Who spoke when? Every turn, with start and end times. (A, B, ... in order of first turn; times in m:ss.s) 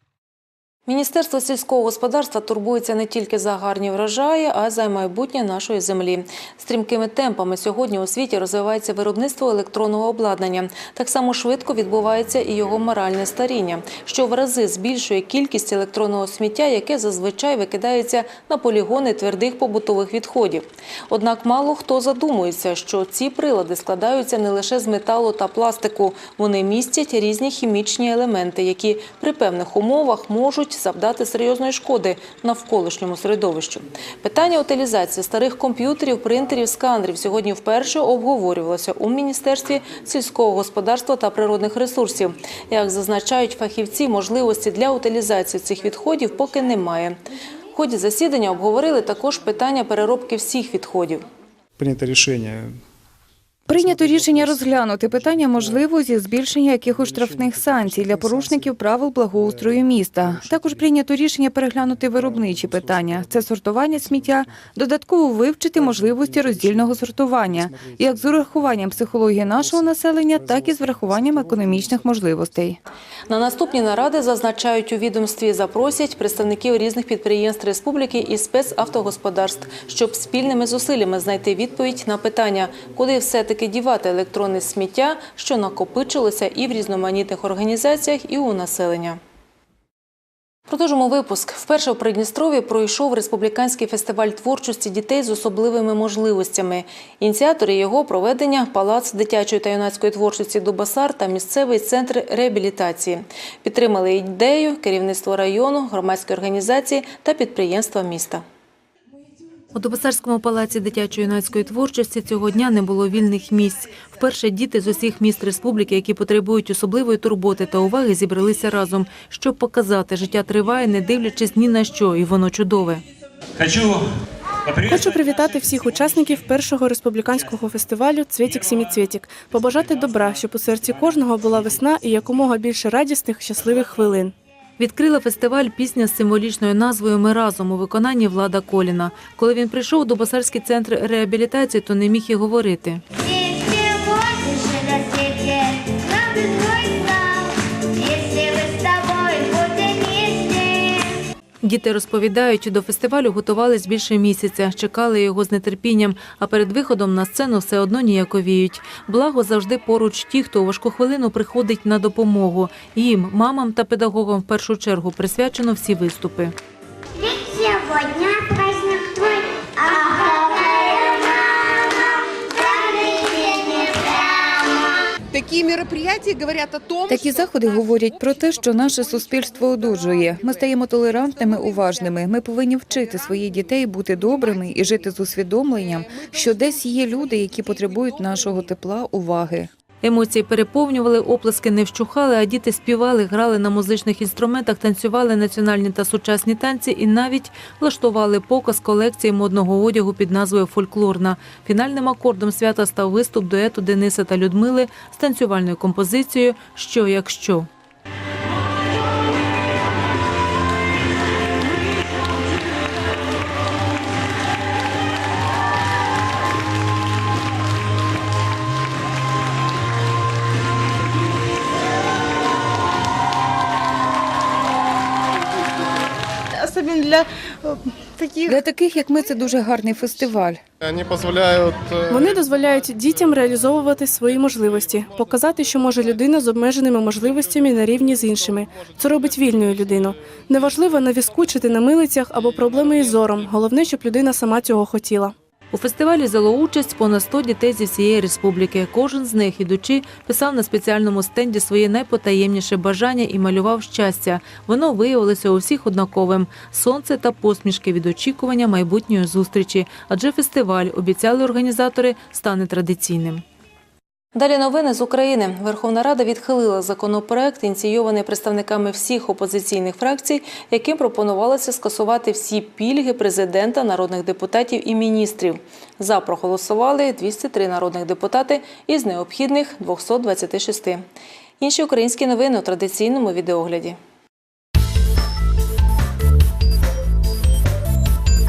0:00.8-0:47.2 A
0:47.7-0:51.2 A
0:51.8-0:52.8 B
0:53.7-0:55.9 B
0:53.7-1:12.8 C
0:56.8-1:01.1 B
1:01.8-1:04.7 B
1:05.7-1:12.6 B
1:13.3-1:29.2 A
1:30.7-1:48.4 A
1:49.7-2:03.0 A
2:04.8-2:14.3 D
2:14.8-2:23.0 A
2:23.2-2:31.2 E
2:31.6-2:46.5 A
2:47.2-2:55.1 E
2:55.3-2:57.6 F
2:57.1-3:09.7 C
3:05.8-3:06.6 F
3:10.0-3:27.7 A
3:46.6-3:48.5 F
3:48.4-3:50.6 C
3:52.1-4:05.3 D
4:05.7-4:23.4 A
4:24.3-4:41.0 A
4:41.6-4:44.0 A